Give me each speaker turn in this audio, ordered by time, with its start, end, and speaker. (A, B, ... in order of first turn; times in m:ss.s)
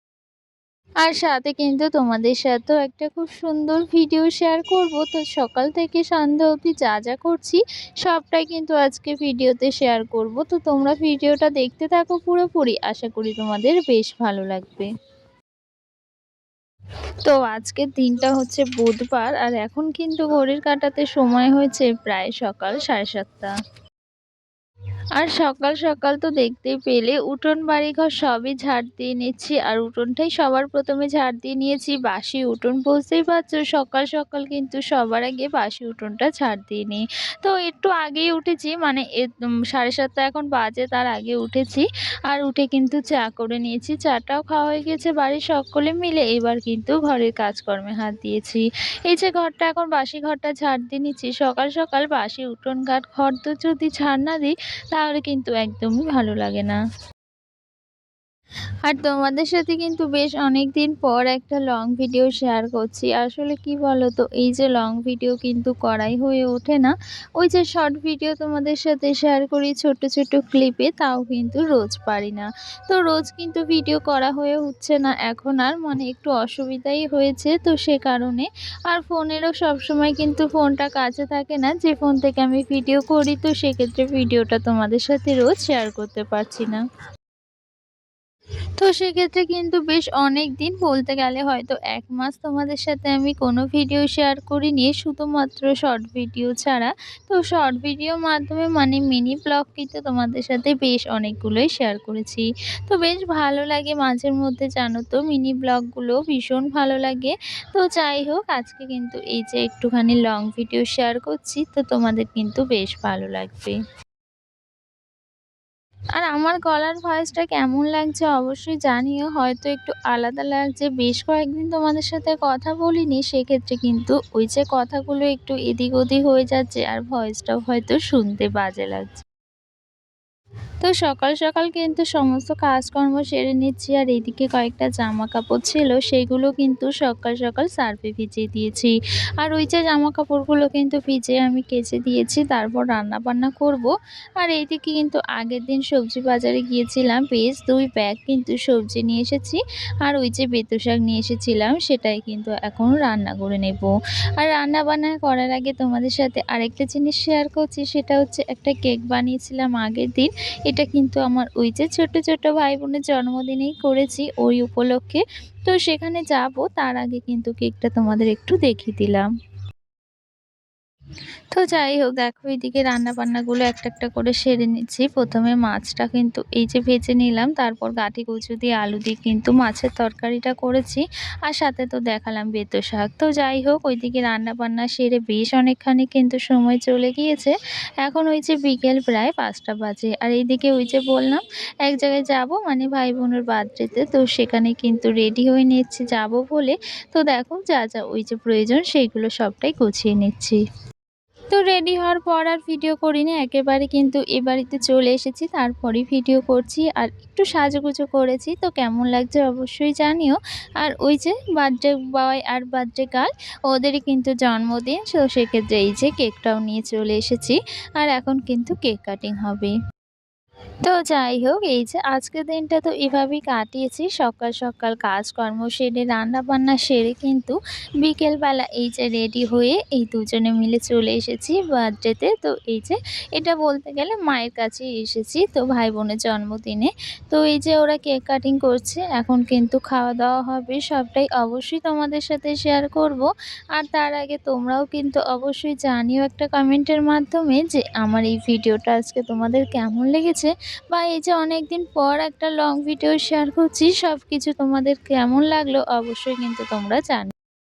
0:01.0-0:14.9 A
0:17.2-0:23.5 A
0:25.2-0:56.8 A
0:58.8-1:26.8 A
1:28.8-1:53.8 A
1:56.2-2:09.2 A
2:10.8-2:49.3 A
2:51.5-3:20.6 A
3:21.5-3:39.7 A
3:40.8-4:17.3 A